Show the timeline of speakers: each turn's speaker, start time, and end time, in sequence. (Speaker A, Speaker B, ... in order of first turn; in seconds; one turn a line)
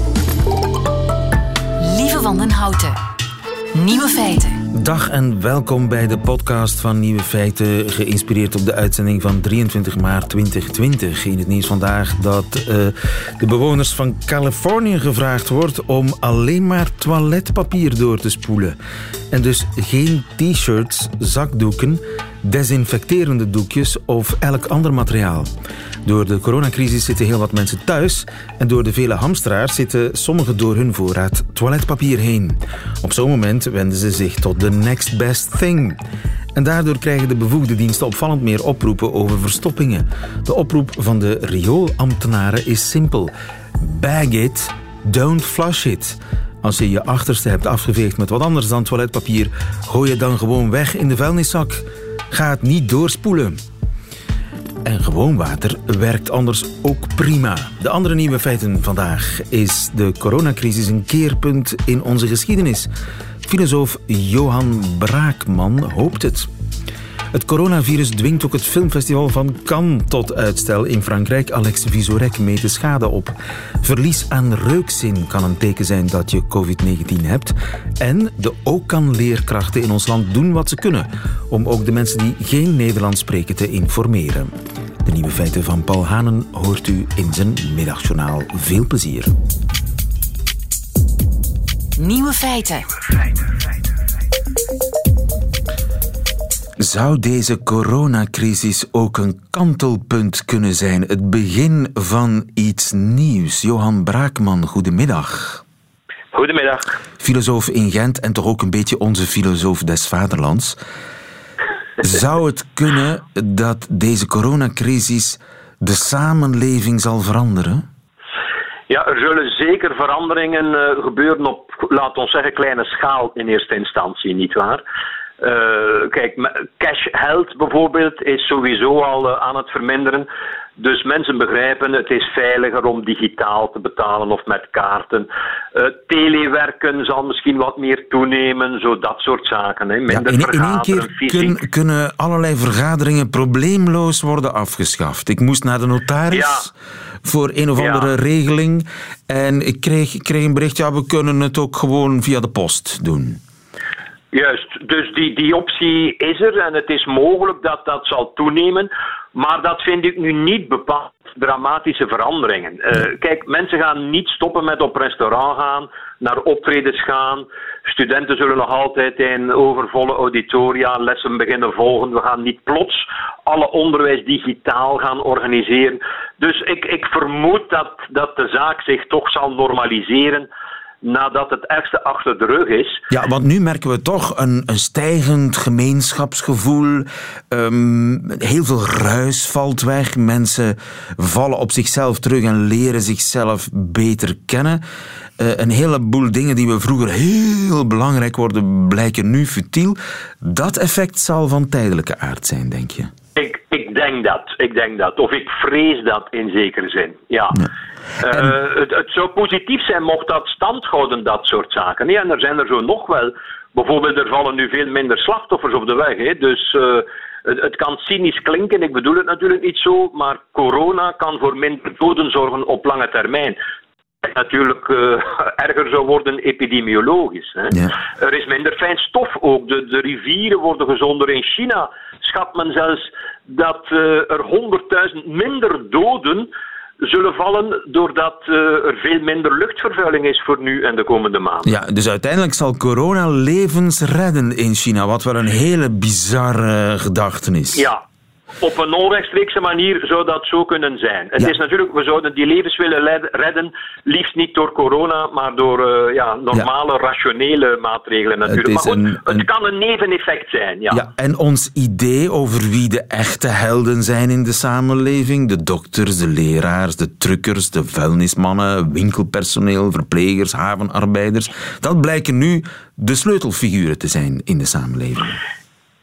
Speaker A: 1.8-2.9
Speaker A: 3.7-4.6
Speaker B: 4.7-18.8
Speaker B: 19.3-25.5
Speaker B: 26.0-36.0
Speaker B: 36.5-53.6
Speaker B: 54.8-62.9
Speaker B: 63.4-66.5
Speaker B: 67.3-84.5
Speaker B: 85.0-89.3
Speaker A: 92.0-92.9
Speaker B: 96.8-105.6
Speaker C: 106.3-107.0
Speaker B: 107.2-110.8
Speaker B: 112.0-117.8
Speaker C: 118.9-124.8
Speaker C: 125.4-130.3
Speaker C: 130.8-141.6
Speaker B: 140.1-146.7
Speaker C: 146.3-146.7
Speaker B: 147.2-153.4
Speaker C: 147.8-148.1
Speaker C: 154.3-180.5
Speaker C: 181.0-183.0
Speaker B: 183.1-194.8
Speaker B: 195.4-203.1
Speaker C: 203.3-207.7
Speaker C: 208.2-223.6
Speaker B: 208.3-208.5
Speaker C: 224.2-236.5
Speaker C: 237.0-241.7
Speaker B: 241.6-247.9
Speaker C: 248.6-261.0
Speaker B: 258.5-259.5
Speaker B: 260.9-275.4